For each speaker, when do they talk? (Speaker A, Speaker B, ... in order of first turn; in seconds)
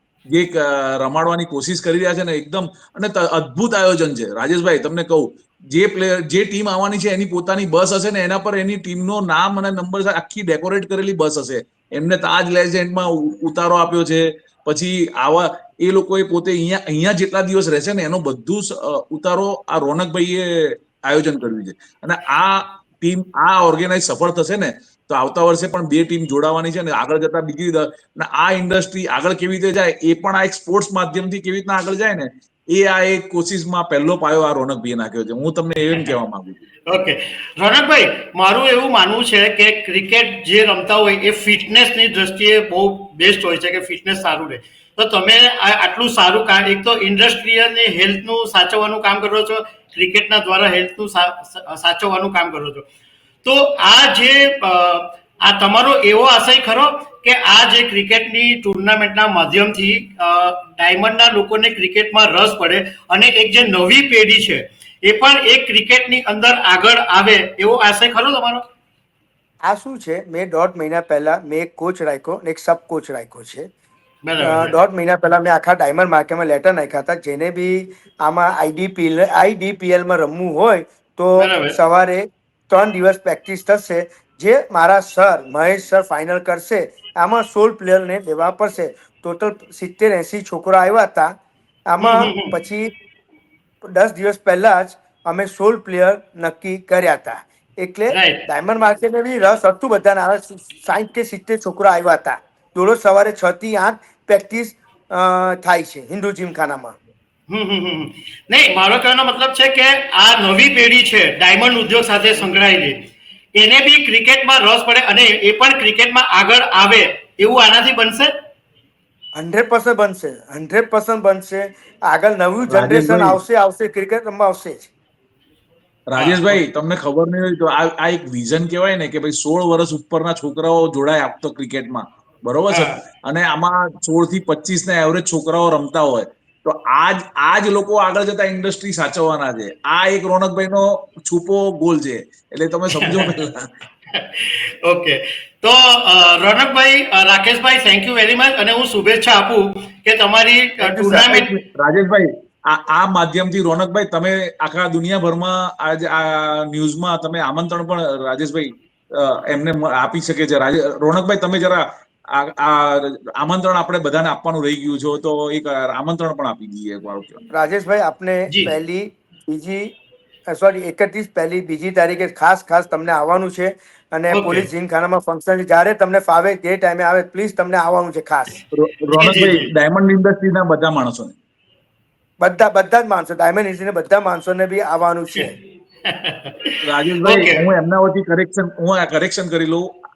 Speaker A: 0.3-36.6, 122.6-123.4, 126.1-143.7, 151.3-167.4, 178.7-181.3, 186.8-189.8
Speaker B: 35.9-36.2, 36.9-52.9, 53.4-68.6, 74.2-74.8, 81.4-81.8, 92.0-92.5, 98.1-98.4, 107.5-113.0, 113.6-118.3, 126.2-126.6, 132.7-133.0, 142.9-143.3, 144.1-151.5, 174.3-174.7, 179.1-179.7, 186.1-187.6
Speaker C: 69.6-73.7, 74.4-91.3, 91.9-92.9, 93.8-107.0, 119.3-124.9, 150.8-151.3, 167.5-169.8, 170.5-178.5, 182.4-185.6